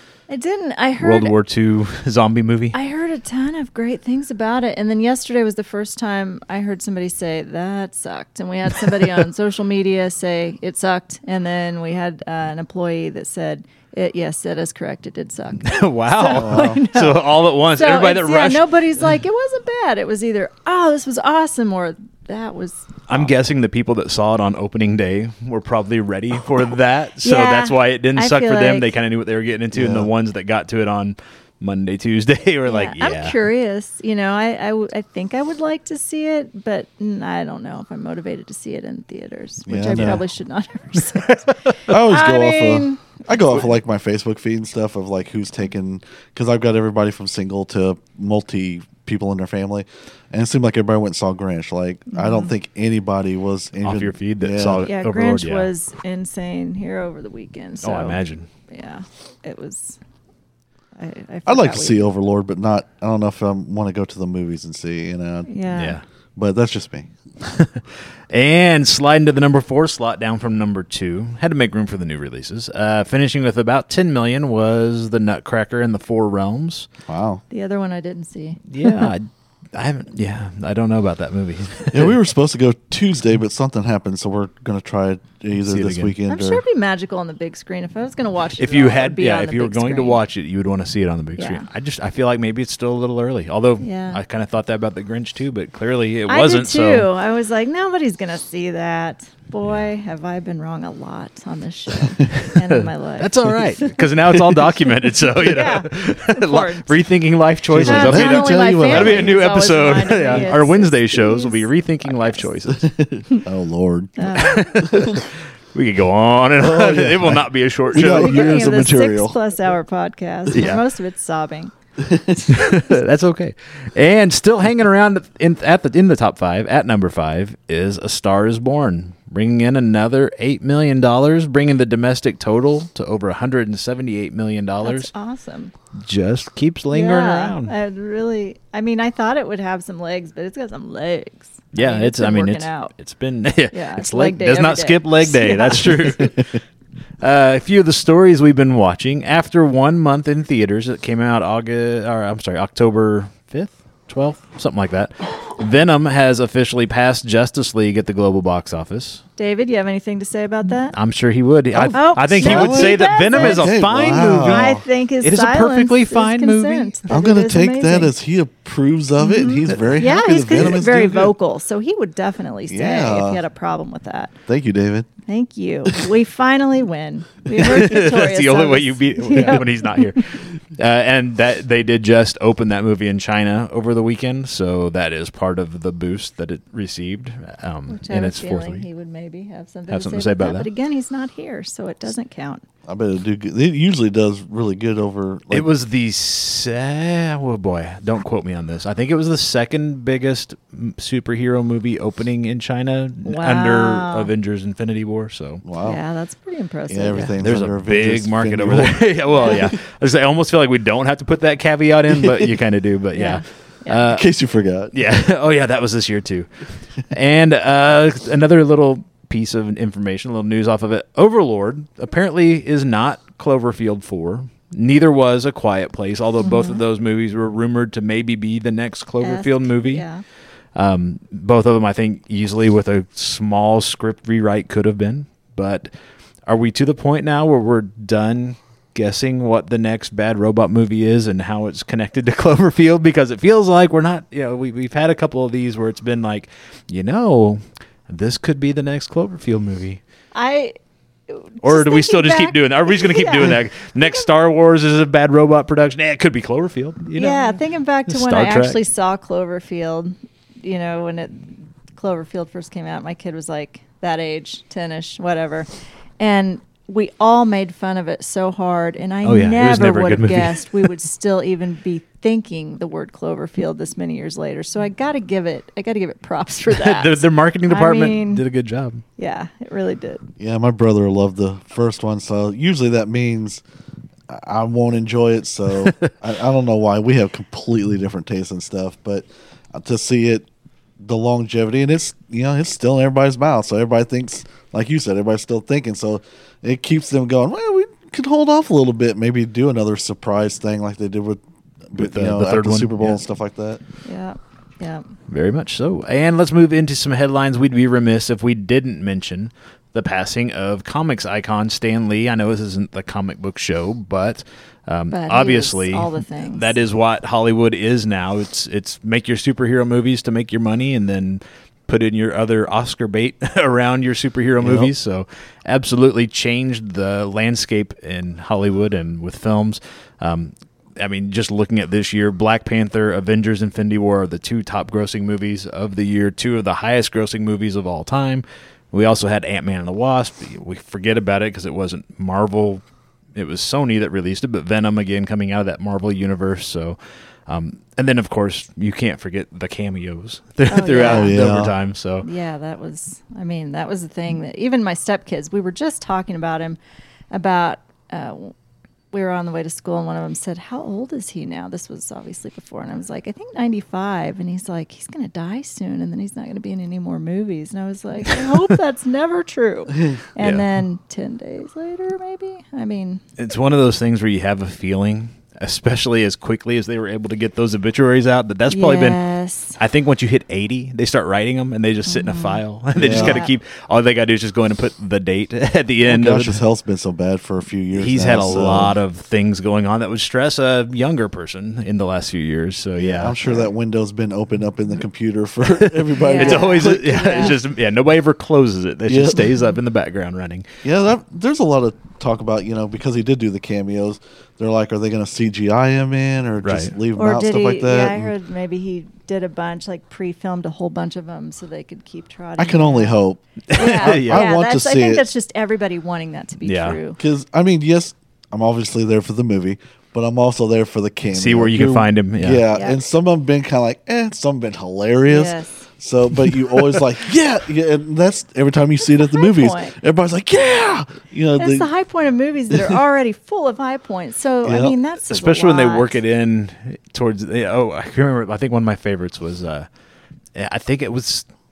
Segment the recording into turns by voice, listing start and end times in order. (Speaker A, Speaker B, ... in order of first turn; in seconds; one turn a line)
Speaker A: 0.3-1.3
Speaker B: 1.0-2.8
Speaker A: 2.7-22.9
Speaker B: 8.8-9.2
Speaker B: 15.6-18.7
Speaker C: 16.3-16.8
Speaker B: 23.1-33.4
Speaker A: 27.2-28.9
Speaker C: 29.7-30.1
Speaker A: 32.6-43.2
Speaker C: 39.6-40.2
Speaker B: 39.9-40.2
Speaker B: 41.0-41.9
Speaker C: 41.9-54.8
Speaker A: 52.1-52.5
Speaker B: 53.8-55.7
Speaker A: 54.9-58.2
Speaker B: 57.8-58.5
Speaker A: 58.7-60.0
Speaker A: 61.0-62.1
Speaker C: 61.5-65.5
Speaker A: 65.5-66.0
Speaker B: 65.7-66.0
Speaker C: 66.3-67.1
Speaker B: 67.4-76.9
Speaker C: 77.1-77.4
Speaker A: 77.5-79.1
Speaker B: 78.7-82.2
Speaker C: 81.9-86.6
Speaker B: 85.6-86.1
Speaker A: 86.3-90.2
Speaker B: 88.6-97.1
Speaker A: 91.4-91.7
Speaker A: 93.8-94.2
Speaker A: 96.3-107.0
Speaker B: 102.3-112.9
Speaker C: 107.7-109.4
Speaker A: 107.8-112.5
Speaker C: 112.7-115.2
Speaker A: 114.2-114.7
Speaker B: 114.3-118.6
Speaker C: 116.6-119.4
Speaker A: 117.9-121.7
Speaker B: 120.5-120.8
Speaker C: 122.0-122.6
Speaker B: 122.5-135.1
Speaker A: 134.8-135.7
Speaker B: 136.0-137.7
Speaker A: 136.9-142.9
Speaker B: 141.7-146.5
Speaker A: 143.7-146.3
Speaker C: 146.3-146.6
Speaker B: 147.2-159.2
Speaker A: 159.4-160.9
Speaker B: 160.9-166.9
Speaker C: 161.7-164.8
Speaker A: 161.9-168.1
Speaker C: 167.1-171.3
Speaker A: 169.2-174.3
Speaker C: 172.7-173.4
Speaker C: 174.5-175.1
Speaker A: 175.3-180.1
Speaker B: 177.5-188.9
Speaker A: 187.9-192.6
Speaker B: 189.9-190.7
Speaker C: 192.9-195.7
Speaker B: 195.5-205.6
Speaker A: 203.2-204.3
Speaker C: 205.6-206.0
Speaker A: 205.8-207.4
Speaker C: 206.9-209.7
Speaker B: 207.4-214.2
Speaker A: 209.3-209.6
Speaker C: 212.1-212.5
Speaker A: 213.1-214.1
Speaker C: 214.1-214.9
Speaker B: 214.9-216.5
Speaker B: 217.1-230.1
Speaker A: 226.4-226.8
Speaker A: 229.2-230.2
Speaker B: 230.7-235.9
Speaker B: 236.5-250.0
Speaker A: 250.3-250.8
Speaker A: 251.3-254.3
Speaker B: 251.6-258.8
Speaker A: 257.2-278.4
Speaker B: 269.2-270.9
Speaker B: 276.7-279.0
Speaker A: 279.2-280.2
Speaker C: 280.4-283.6
Speaker C: 284.3-290.5
Speaker B: 285.8-286.1
Speaker C: 291.0-303.8
Speaker B: 302.0-303.2
Speaker A: 304.1-305.1
Speaker B: 305.3-342.8
Speaker A: 315.1-316.7
Speaker C: 324.6-324.9
Speaker B: 343.3-352.3
Speaker A: 350.7-351.4
Speaker C: 350.9-351.7
Speaker A: 352.2-356.8
Speaker A: 357.3-358.5
Speaker A: 359.1-373.2
Speaker B: 370.4-370.7
Speaker B: 373.4-379.2
Speaker A: 378.7-379.8
Speaker B: 379.8-386.6
Speaker A: 382.1-383.5
Speaker C: 382.9-383.4
Speaker C: 386.1-388.9
Speaker B: 387.9-393.6
Speaker C: 393.0-397.5
Speaker B: 395.8-400.7
Speaker A: 396.2-397.6
Speaker C: 399.1-399.5
Speaker C: 400.8-408.3
Speaker B: 406.6-406.9
Speaker A: 407.2-413.2
Speaker C: 412.6-415.2
Speaker B: 413.7-414.5
Speaker A: 413.7-417.2
Speaker B: 416.6-417.0
Speaker C: 417.2-431.9
Speaker B: 421.3-422.6
Speaker A: 422.7-423.0
Speaker A: 425.3-425.8
Speaker A: 429.0-429.9
Speaker A: 431.6-436.2
Speaker C: 432.7-433.0
Speaker C: 434.6-434.9
Speaker B: 435.2-439.9
Speaker B: 440.6-441.5